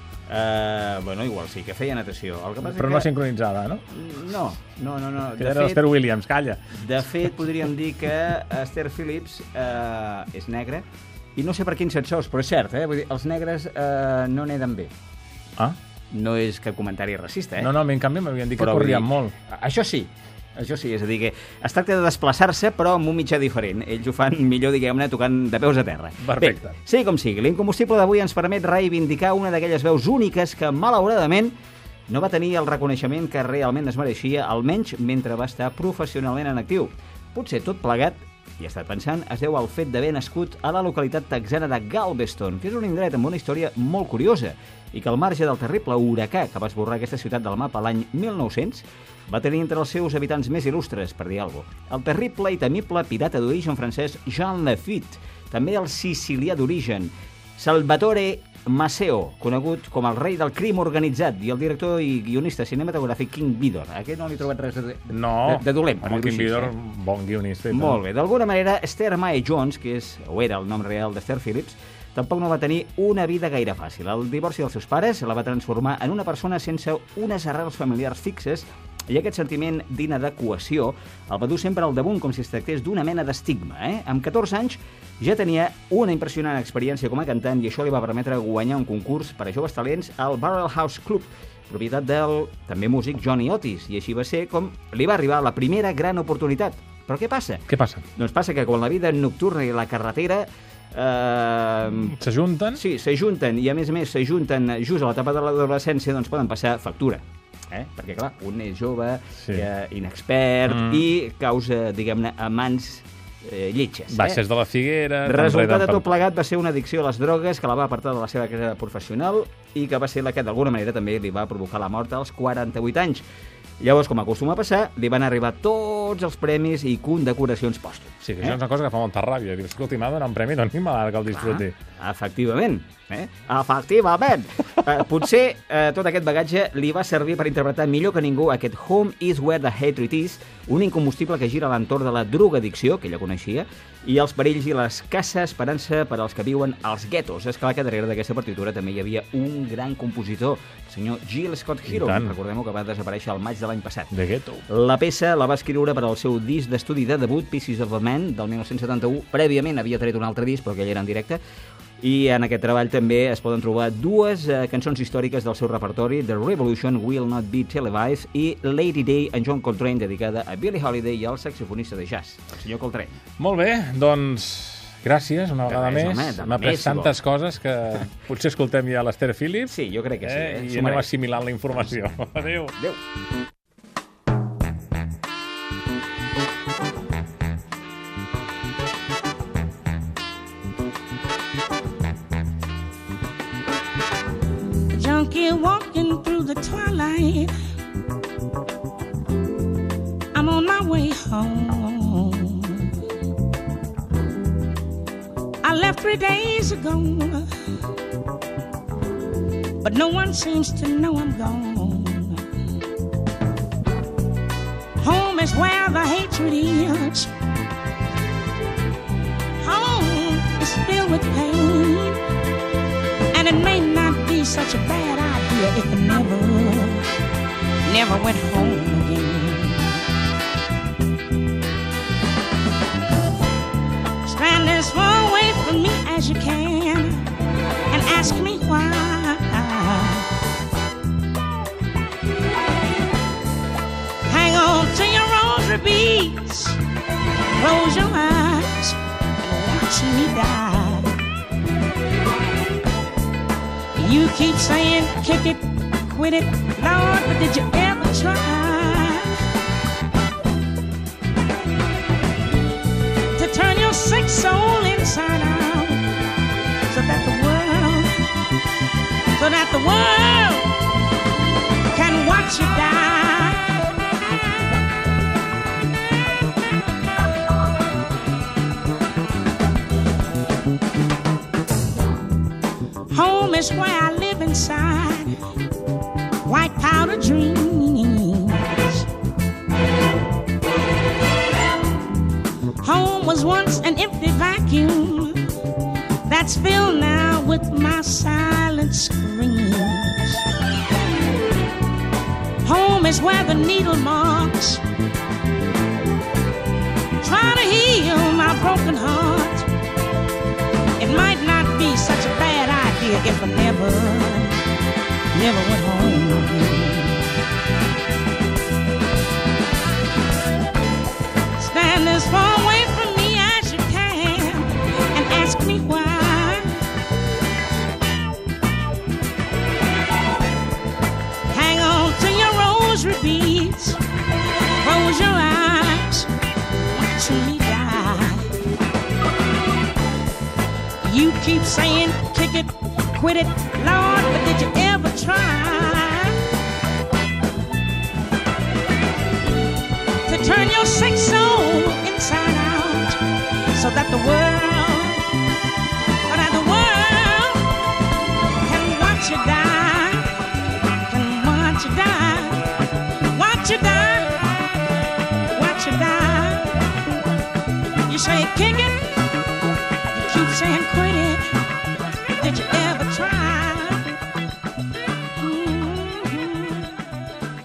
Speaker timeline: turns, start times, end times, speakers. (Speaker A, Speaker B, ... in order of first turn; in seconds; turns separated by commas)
Speaker A: 0.3-3.1, Speaker B: 2.6-3.9, Speaker A: 3.9-5.8, Speaker B: 5.4-6.6, Speaker A: 6.7-10.8, Speaker A: 11.3-14.9, Speaker A: 16.1-17.7, Speaker B: 17.6-19.3, Speaker A: 18.6-31.5, Speaker B: 26.2-26.8, Speaker A: 32.1-66.7, Speaker B: 65.1-68.0, Speaker A: 67.7-97.7, Speaker B: 97.7-98.0, Speaker A: 98.2-102.2, Speaker B: 102.0-102.8, Speaker A: 102.8-114.4, Speaker B: 110.7-111.0, Speaker B: 114.1-116.0, Speaker A: 115.2-123.2, Speaker A: 123.8-128.6, Speaker B: 128.2-131.7, Speaker A: 131.3-154.1, Speaker B: 151.9-152.3, Speaker B: 154.1-154.6, Speaker A: 154.7-161.4, Speaker A: 162.0-173.2, Speaker B: 173.4-182.8, Speaker A: 175.7-177.2, Speaker A: 179.7-181.1, Speaker C: 194.9-197.5, Speaker C: 200.3-202.9, Speaker C: 205.6-207.5, Speaker C: 209.8-212.5, Speaker C: 215.0-217.3, Speaker C: 219.6-222.2, Speaker C: 223.3-227.1, Speaker C: 227.8-230.1, Speaker C: 234.2-237.3, Speaker C: 237.9-240.3, Speaker C: 244.2-246.8, Speaker C: 247.6-251.1, Speaker C: 254.0-259.4, Speaker C: 263.3-266.1, Speaker C: 266.9-268.3, Speaker C: 269.3-270.7, Speaker C: 271.9-274.0, Speaker C: 283.1-285.4, Speaker C: 286.4-289.1, Speaker C: 292.8-295.5, Speaker C: 296.2-300.4, Speaker C: 302.6-304.9, Speaker C: 307.2-309.7, Speaker C: 311.0-314.6, Speaker C: 315.3-317.2, Speaker C: 321.6-326.7, Speaker C: 331.5-334.0, Speaker C: 334.8-336.3, Speaker C: 336.8-338.5, Speaker C: 341.0-346.4, Speaker C: 350.2-355.4, Speaker C: 356.2-357.7, Speaker C: 358.6-360.4, Speaker C: 361.1-364.5, Speaker C: 365.5-366.8, Speaker C: 368.1-369.0, Speaker C: 370.1-371.6, Speaker C: 372.3-374.1, Speaker C: 375.4-377.0